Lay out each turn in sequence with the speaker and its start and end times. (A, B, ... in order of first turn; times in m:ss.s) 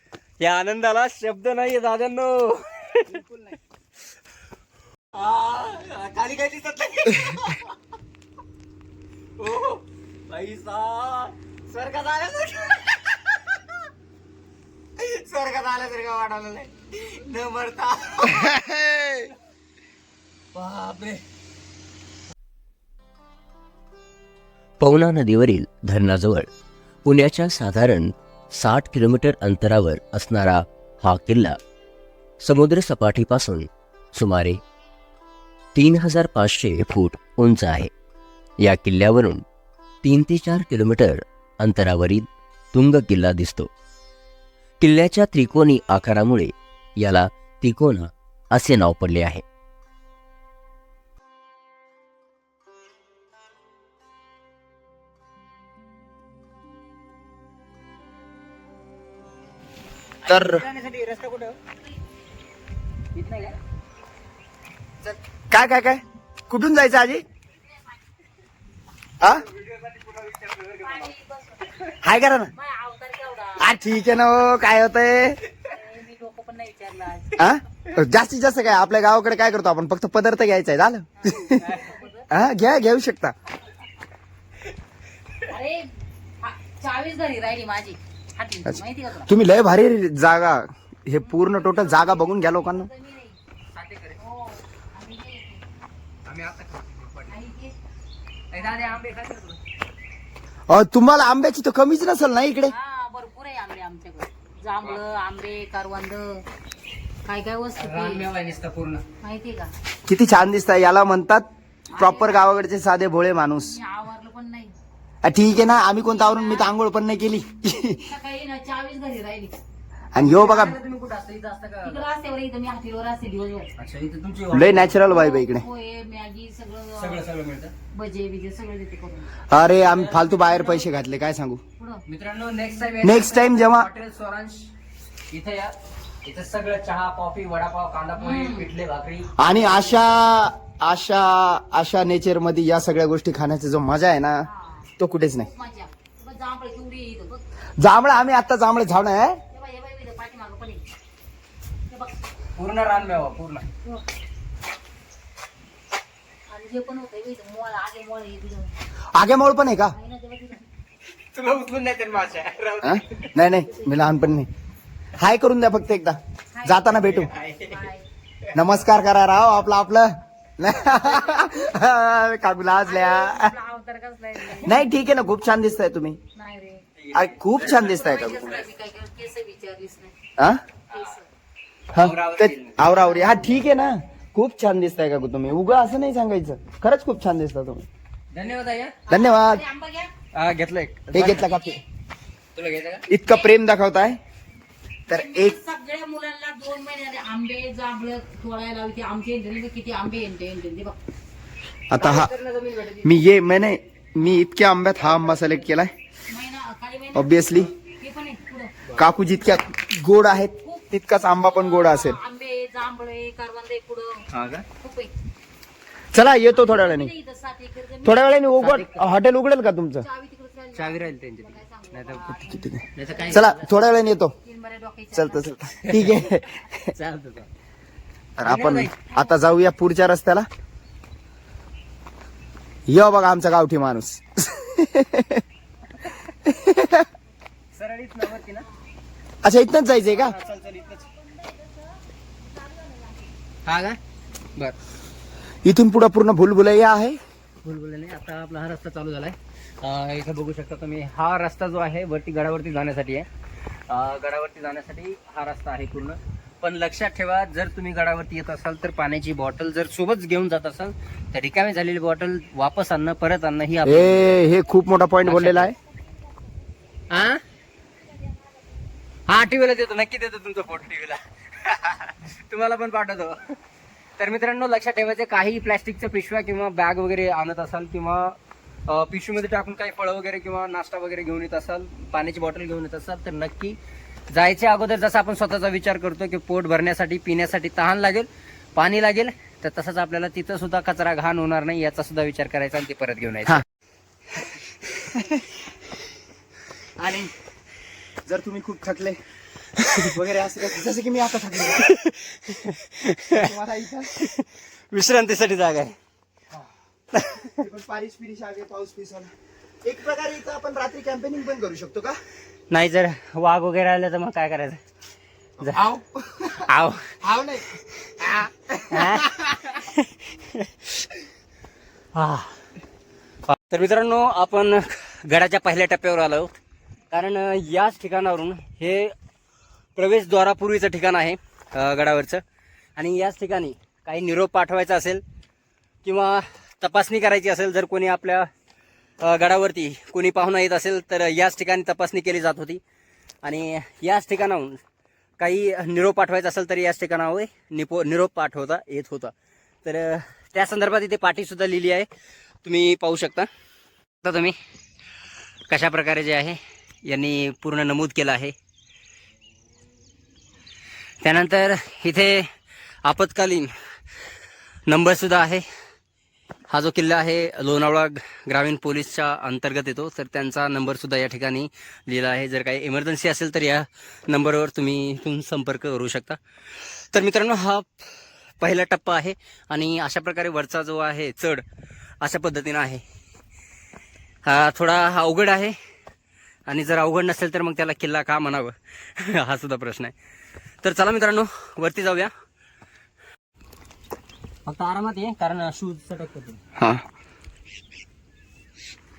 0:00.4-0:03.2 A
0:03.3-0:03.5 B
0:05.1-0:07.7 A
0:09.4-0:13.7 A
0:15.0-0:18.6 A
0:18.6-0:19.2 B
0:20.6-0:21.2 A
0:24.8-0:26.5 C
0:27.3-0:30.6 C
0:31.2-0:31.6 C
0:32.5-0:33.7 C
0:34.2-0:34.6 C
0:35.8-0:37.9 C
0:38.6-0:39.4 C
0:40.1-0:42.3 C
0:42.8-0:43.7 C
0:44.8-0:46.5 C
0:47.0-0:49.4 C
1:00.2-1:01.6 A
1:00.3-1:00.6 B
1:03.2-1:03.6 A
1:05.5-1:07.2 B
1:09.3-1:11.1 A
1:10.8-1:12.0 D
1:12.0-1:12.5 B
1:12.6-1:13.8 D
1:13.6-1:15.4 B
1:15.6-1:17.5 D
1:17.4-1:21.6 B
1:21.2-1:22.3 D
1:22.3-1:23.3 B
1:25.5-1:25.9 D
1:26.4-1:29.3 D
1:28.7-1:32.9 B
1:31.2-1:33.4 D
1:33.7-1:34.2 A
1:34.2-1:35.6 D
1:36.3-1:37.4 A
1:37.3-1:37.7 D
1:38.5-1:39.6 A
1:38.6-1:39.0 D
1:40.7-1:42.7 B
1:42.6-1:46.4 D
1:47.2-1:48.3 D
1:47.8-1:49.0 A
1:49.2-1:49.7 D
1:50.1-1:51.5 B
1:51.9-1:52.6 D
1:52.0-1:53.8 B
1:53.6-1:54.7 D
1:55.2-1:58.1 B
1:56.0-1:56.7 D
1:58.1-1:59.6 D
2:00.1-2:00.8 B
2:00.2-2:02.0 A
2:01.8-2:03.7 D
2:03.8-2:05.0 A
2:04.6-2:05.6 B
2:05.0-2:07.2 D
2:07.0-2:07.7 A
2:07.9-2:09.3 D
2:09.5-2:11.6 B
2:09.8-2:10.9 A
2:11.8-2:12.0 D
2:12.1-2:14.7 A
2:13.0-2:13.9 B
2:15.3-2:19.3 A
2:18.2-2:18.7 D
2:19.4-2:24.5 B
2:24.5-2:27.4 D
2:25.0-2:25.5 B
2:27.8-2:29.4 B
2:29.5-2:30.8 D
2:31.9-2:32.2 D
2:32.6-2:33.7 A
2:36.5-2:38.7 D
2:39.2-2:40.0 B
2:39.9-2:40.6 D
2:41.3-2:43.3 A
2:42.8-2:44.5 B
2:45.2-2:47.3 B
2:46.5-2:48.1 D
2:47.1-2:47.8 A
2:48.6-2:53.6 B
2:52.8-2:54.9 D
2:54.6-2:56.2 B
2:56.4-2:56.8 D
2:57.0-2:58.2 A
2:57.1-2:58.6 B
2:57.7-3:00.2 D
3:00.9-3:01.2 A
3:00.9-3:01.3 D
3:01.9-3:03.0 A
3:01.9-3:07.9 B
3:08.3-3:09.0 A
3:09.1-3:10.1 D
3:09.1-3:09.6 B
3:10.3-3:11.5 A
3:11.1-3:11.8 B
3:11.4-3:11.8 D
3:12.6-3:13.1 A
3:13.1-3:14.2 B
3:15.1-3:15.6 B
3:15.1-3:21.0 D
3:21.9-3:22.3 B
3:22.0-3:23.2 A
3:23.0-3:25.9 B
3:25.0-3:25.6 A
3:26.3-3:28.9 D
3:27.2-3:27.7 B
3:29.0-3:32.2 B
3:30.6-3:34.2 D
3:34.3-3:34.7 A
3:34.8-3:35.1 D
3:36.1-3:37.1 B
3:36.5-3:38.4 D
3:38.0-3:40.1 B
3:38.6-3:39.0 A
3:40.0-3:43.7 D
3:40.8-3:42.4 A
3:42.5-3:42.8 B
3:42.9-3:43.7 A
3:43.4-3:44.3 B
3:44.4-3:46.1 D
3:45.2-3:46.4 B
3:45.8-3:46.3 A
3:46.9-3:47.5 A
3:48.4-3:50.5 B
3:48.4-3:49.0 A
3:52.9-3:55.4 B
3:56.6-3:57.1 B
3:57.7-3:58.7 A
3:59.4-4:00.4 B
4:00.1-4:01.1 A
4:00.5-4:01.9 D
4:02.5-4:03.3 D
4:03.7-4:04.0 A
4:05.6-4:07.2 B
4:07.6-4:13.3 A
4:13.9-4:24.5 A
4:23.9-4:25.7 B
4:25.2-4:25.7 A
4:27.1-4:27.4 A
4:29.3-4:33.5 A
4:34.2-4:38.4 A
4:38.9-4:43.8 A
4:44.3-4:53.6 A
4:57.0-4:57.3 B
4:58.3-4:59.2 B
5:00.1-5:01.8 B
5:01.7-5:03.5 A
5:03.4-5:04.1 B
5:04.2-5:06.0 A
5:07.1-5:07.6 A
5:07.6-5:09.3 B
5:09.8-5:12.2 B
5:12.7-5:14.8 A
5:15.8-5:16.7 B
5:16.7-5:17.1 A
5:17.2-5:17.6 B
5:18.9-5:20.7 A
5:22.1-5:22.6 A
5:23.5-5:26.5 A
5:27.1-5:29.1 A
5:30.0-5:32.4 A
5:33.0-5:35.2 A
5:36.0-5:38.5 A
5:39.2-5:42.8 A
5:43.4-5:44.8 A
5:45.4-5:49.3 A
5:49.8-5:52.1 A
5:52.6-5:53.5 A
5:54.2-5:54.6 A
5:55.7-5:58.5 A
6:01.2-6:02.5 A
6:03.0-6:03.7 A
6:04.9-6:05.6 A
6:06.7-6:16.4 A
6:17.1-6:17.9 A
6:18.6-6:21.6 A
6:22.2-6:23.0 A
6:24.4-6:25.8 A
6:26.7-6:30.1 A
6:30.8-6:32.3 A
6:34.7-6:36.6 A
6:36.8-6:37.0 B